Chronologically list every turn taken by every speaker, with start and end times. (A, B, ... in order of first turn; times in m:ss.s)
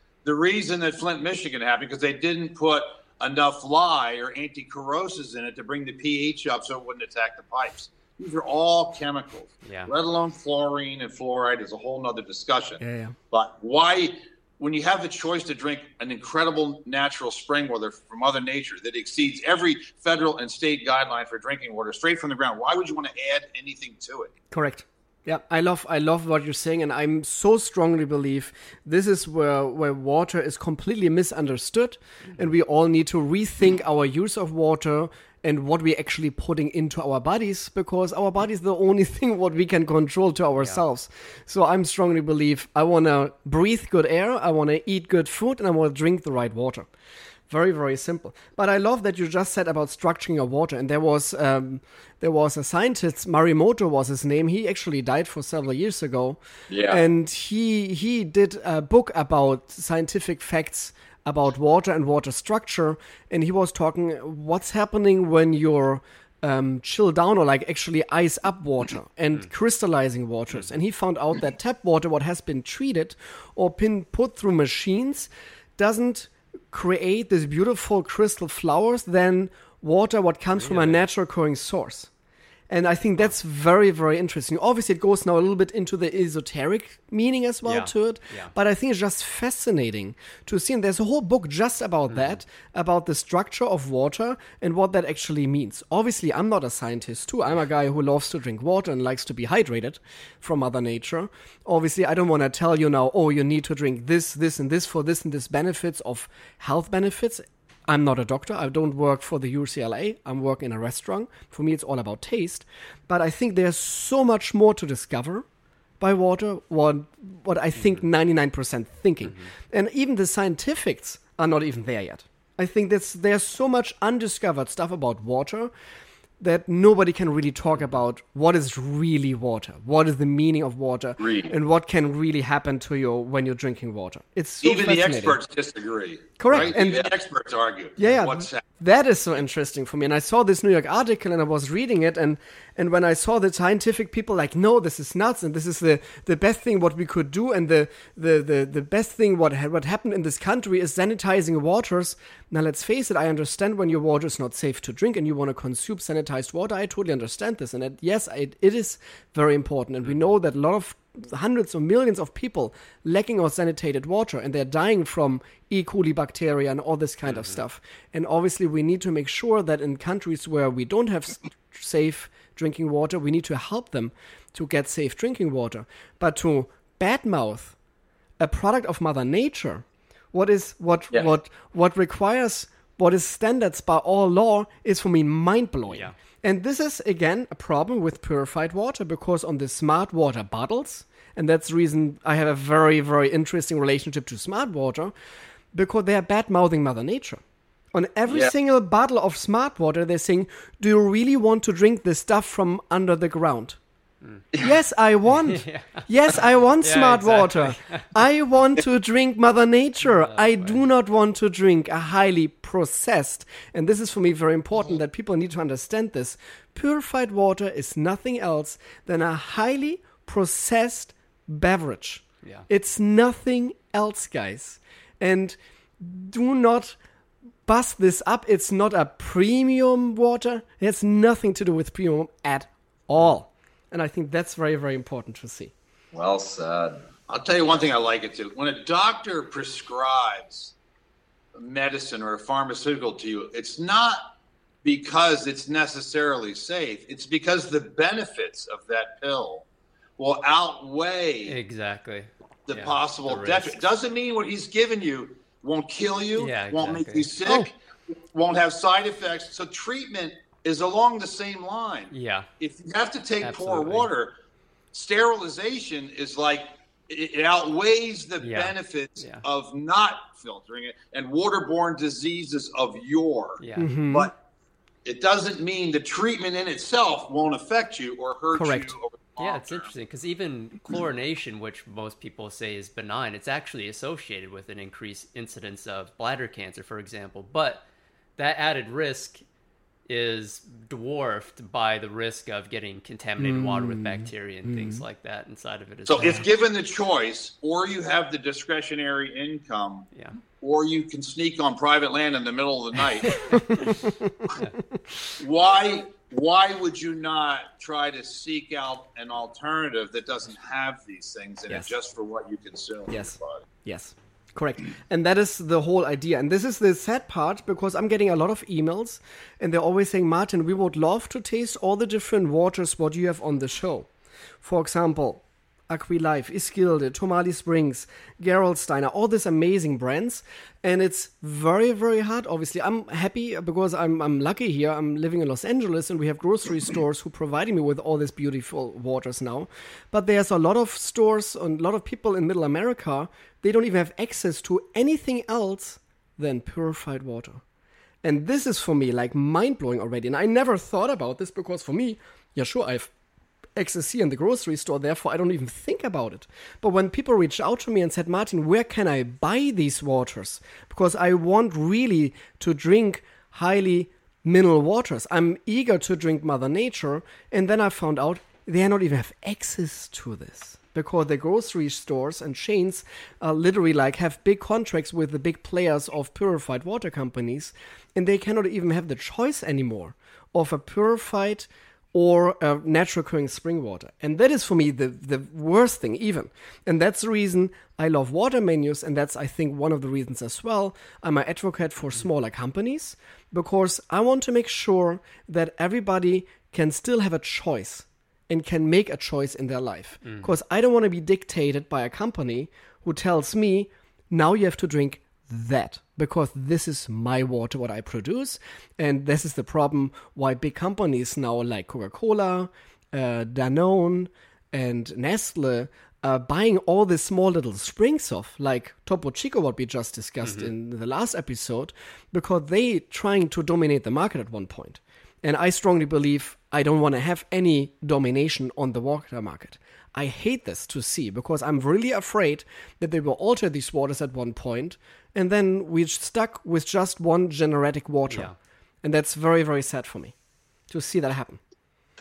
0:00.2-0:24.3 A
0:09.6-0:09.9 B
0:12.8-0:13.1 C
0:24.5-0:46.9 C
0:47.5-1:22.1 C
0:56.7-0:57.0 D
1:20.6-1:21.0 B
1:22.7-1:55.4 C
1:27.6-1:28.5 B
1:32.1-1:32.4 B
1:56.0-2:05.7 C
1:57.8-1:58.0 B
1:59.2-1:59.5 B
2:06.4-2:15.4 C
2:11.2-2:11.5 D
2:14.6-2:18.6 A
2:16.4-2:17.1 C
2:16.6-2:17.1 D
2:18.0-2:57.8 C
2:47.3-2:47.6 B
2:58.4-3:15.1 C
3:05.9-3:06.1 B
3:15.7-3:17.4 C
3:17.9-3:23.8 C
3:18.3-3:18.5 D
3:24.6-3:47.0 C
3:25.5-3:26.1 B
3:26.8-3:28.1 B
3:30.0-3:30.8 B
3:47.7-3:55.7 C
3:56.1-3:57.0 D
3:57.3-4:00.7 A
4:01.6-4:09.6 A
4:10.2-4:11.6 A
4:11.4-4:13.8 B
4:12.7-4:24.3 A
4:16.4-4:17.3 B
4:17.4-4:17.7 C
4:22.1-4:22.5 B
4:23.4-4:24.1 B
4:24.9-4:34.3 A
4:28.4-4:29.4 B
4:33.6-4:33.9 B
4:33.8-4:34.3 C
4:35.0-4:39.9 A
4:38.5-4:39.0 C
4:39.4-4:47.8 B
4:48.4-4:49.4 B
4:50.1-4:56.4 B
4:53.4-4:55.0 C
4:56.1-5:03.6 A
5:03.4-5:04.6 C
5:05.4-5:13.6 A
5:13.1-5:24.1 C
5:24.6-5:47.6 C
5:48.2-5:53.1 C
5:53.8-7:18.5 C
6:40.2-6:40.6 B
7:00.4-7:00.7 B
7:18.3-7:18.6 B
7:19.0-7:20.3 C
7:20.9-7:21.6 C